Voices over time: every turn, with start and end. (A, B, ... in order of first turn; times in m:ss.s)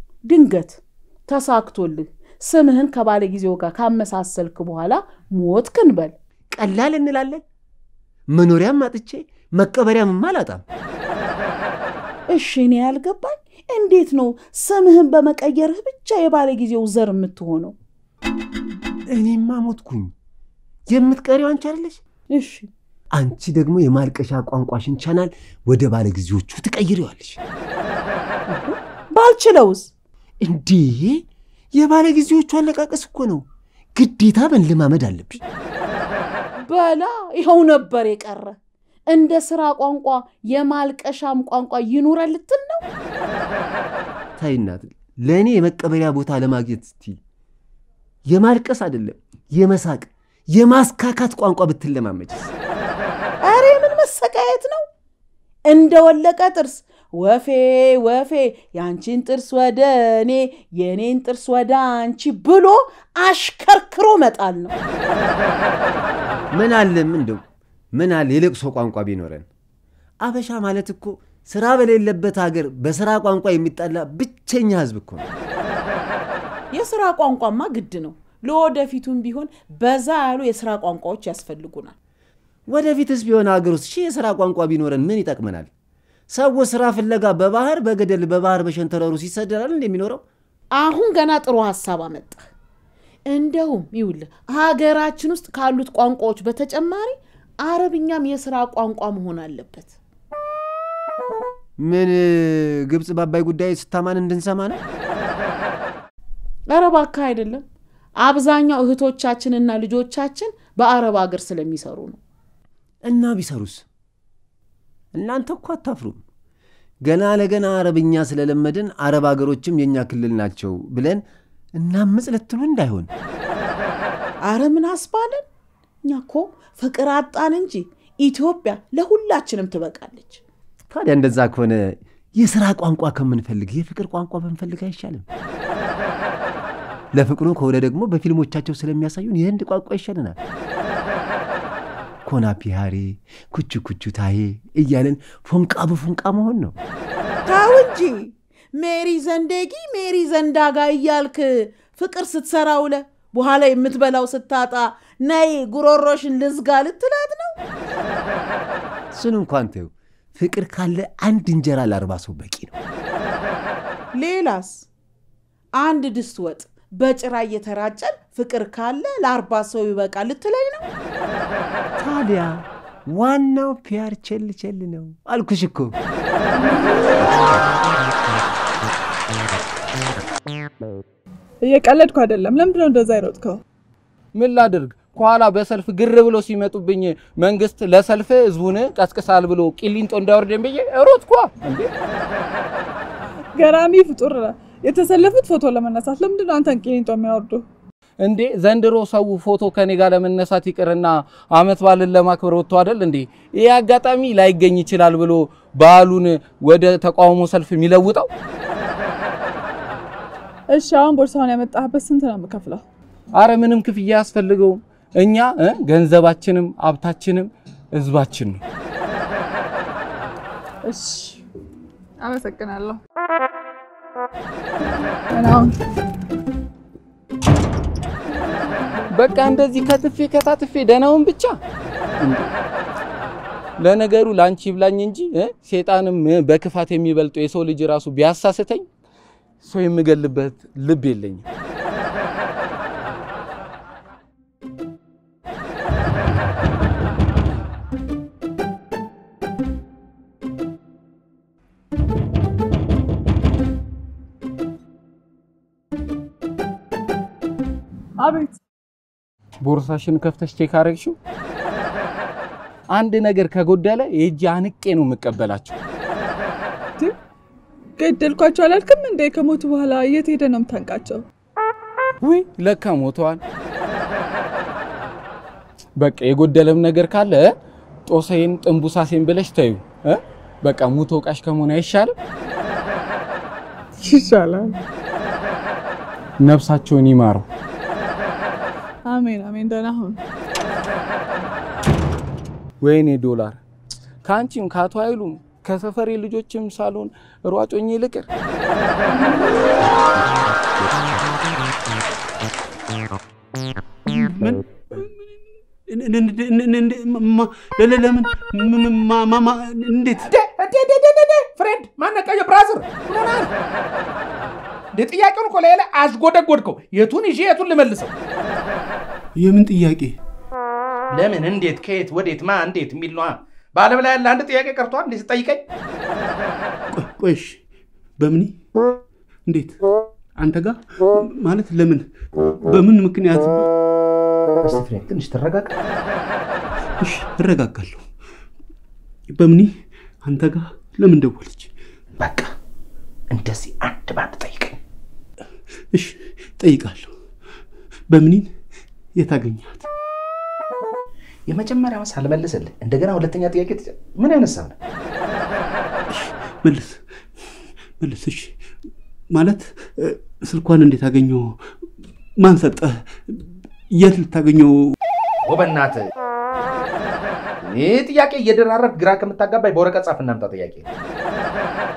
0:00.2-0:06.1 A
0:06.5-0:07.4 B
0:08.3-0:10.6 B
0:12.3-0:17.7 A
0:19.1-0:20.1 B
0:20.9-0:22.0 B
0:22.3-0:22.7 A
0:23.1-0:27.4 B
0:28.5-0:29.9 A
0:30.4-0:31.2 B
0:31.7-0:33.4 B
0:34.0-0:35.4 B
0:36.6-0:38.5 A
0:39.1-0:42.8 A
0:44.4-0:47.2 B
0:48.3-0:52.5 B
0:53.4-0:54.8 A
0:55.7-1:04.7 A
1:06.5-1:07.4 B
1:08.0-1:09.4 B
1:10.2-1:15.3 B
1:16.7-1:21.9 A
1:22.7-1:25.7 B
1:26.3-1:30.2 B
1:30.8-1:32.5 A
1:33.3-1:39.9 A
1:41.8-1:44.8 B
1:46.7-1:47.6 A
1:48.2-1:52.2 A
1:53.1-1:53.8 B
1:55.1-1:56.2 B
1:57.0-2:01.2 B
2:01.8-2:03.1 B
2:04.4-2:05.4 A
2:06.0-2:10.4 A
2:10.9-2:15.2 B
2:17.1-2:20.4 B
2:22.2-2:26.8 B
2:27.4-2:37.6 A
2:39.1-2:42.7 B
2:44.1-2:44.9 A
2:45.8-2:50.8 A
2:52.0-2:55.9 B
3:01.6-3:03.6 C
3:04.3-3:11.9 D
3:13.5-3:17.6 C
3:18.2-3:28.3 D
3:30.7-3:32.8 C
3:33.4-3:38.6 D
3:40.8-3:41.4 C
3:42.2-3:43.0 C
3:45.3-3:45.7 C
3:49.1-3:51.6 D
3:52.2-3:52.5 D
3:53.8-3:58.8 D
3:59.6-4:01.4 D
4:18.2-4:18.6 C
4:19.6-4:21.2 D
4:22.9-4:25.8 D
4:28.0-4:31.2 C
4:32.2-4:33.4 D
4:36.0-4:37.5 D
4:38.1-4:42.1 D
4:44.0-4:44.7 C
4:46.4-4:47.4 D
4:49.1-4:50.2 C
4:52.8-4:53.6 D
4:54.2-4:58.3 D
5:04.0-5:05.1 E
5:05.9-5:10.3 E
5:10.3-5:13.5 F
5:14.9-5:18.1 F
5:19.4-5:20.2 E
5:21.1-5:25.6 F
5:26.9-5:27.6 E
5:28.2-5:28.6 E
5:29.5-5:29.8 E
5:30.4-5:32.0 E
5:32.6-5:33.7 E
5:34.6-5:35.8 F
5:37.0-5:38.0 E
5:39.3-5:39.7 E
5:40.2-5:41.7 E
5:42.2-5:42.5 F
5:43.3-5:44.8 F
5:45.9-5:47.1 E
5:48.1-5:48.5 E
5:49.2-5:49.9 E
5:51.5-5:54.7 F
5:56.1-5:57.0 E
5:58.0-5:58.5 E
5:59.3-6:01.6 E
6:02.4-6:04.9 E
6:05.4-6:06.1 F
6:07.6-6:10.9 F